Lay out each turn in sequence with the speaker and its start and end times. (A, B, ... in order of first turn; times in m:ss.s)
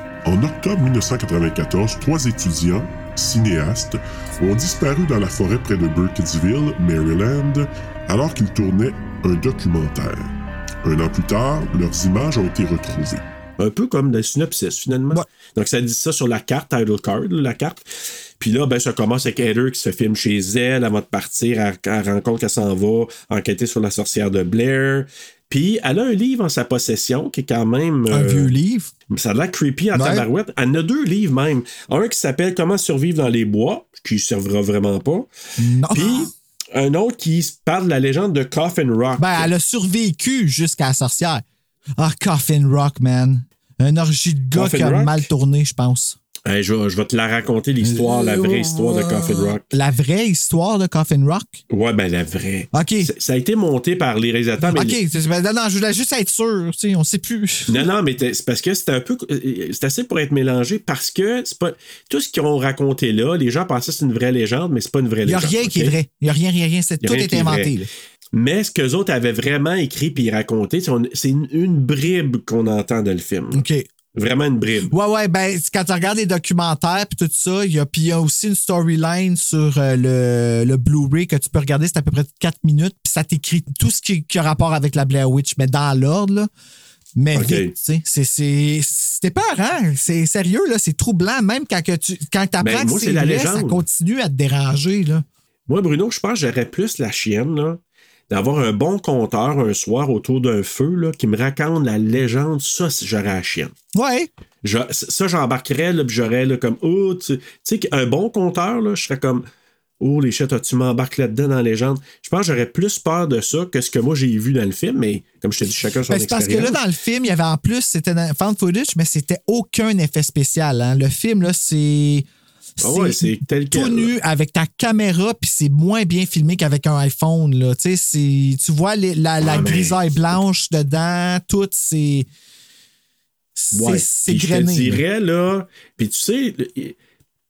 0:00.3-0:10.3 A
0:10.8-0:13.2 A
0:13.6-0:17.9 B
0:18.4-0:28.5 B
0:28.1-0:28.9 C
0:29.1-0:35.3 B
0:29.9-0:30.2 C
0:35.6-0:36.3 C
0:35.9-0:39.5 B
0:39.2-0:41.4 C
0:42.0-0:46.2 C
0:44.5-0:45.2 B
0:46.5-0:49.7 B
0:47.8-0:51.6 C
0:51.7-0:55.0 B
0:52.7-0:53.1 C
0:54.6-0:57.9 C
0:57.7-1:06.0 B
1:05.2-1:07.9 C
1:07.0-1:07.7 B
1:08.3-1:13.6 B
1:13.5-1:13.9 C
1:14.2-1:14.9 B
1:14.9-1:26.5 C
1:27.2-1:35.2 C
1:27.3-1:27.7 B
1:32.6-1:33.8 B
1:35.7-1:37.8 B
1:38.3-1:43.7 B
1:43.9-1:44.3 C
1:44.6-1:49.4 B
1:50.0-1:56.8 B
1:56.1-2:02.3 C
2:02.8-2:12.3 C
2:02.8-2:04.1 B
2:09.4-2:10.0 B
2:13.6-2:15.0 C
2:13.7-2:17.0 B